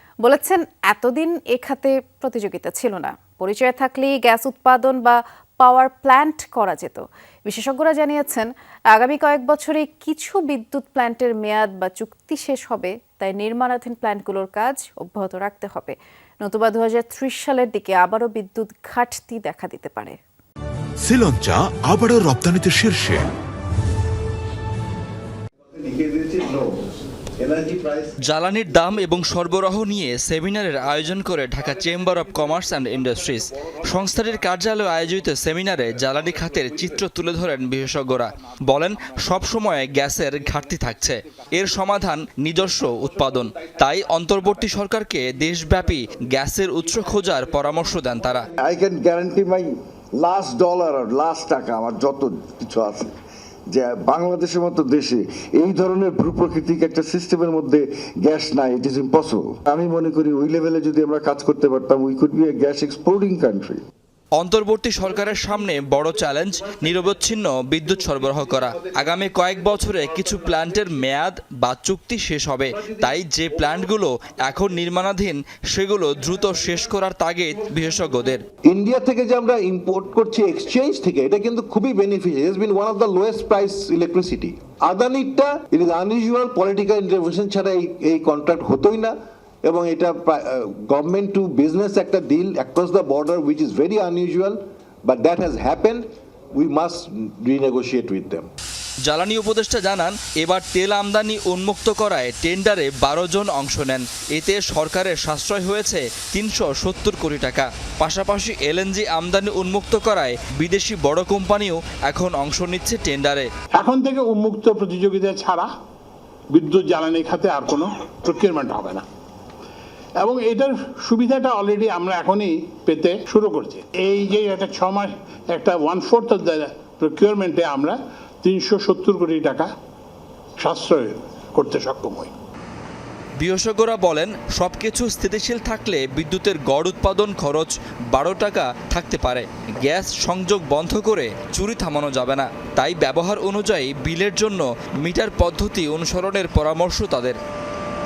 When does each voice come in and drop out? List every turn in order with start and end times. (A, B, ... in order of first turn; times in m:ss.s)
0:00.2-0:20.2 A
0:21.0-0:23.2 B
0:25.7-0:26.8 C
0:27.4-0:28.1 C
0:28.2-0:48.5 D
0:48.6-0:53.1 E
0:53.7-1:03.8 E
1:04.4-1:18.4 D
1:18.7-1:38.5 C
1:39.1-1:53.5 D
1:53.8-1:55.7 F
1:56.5-1:59.0 F
2:00.2-2:09.7 F
2:10.6-2:12.3 F
2:13.4-2:27.4 D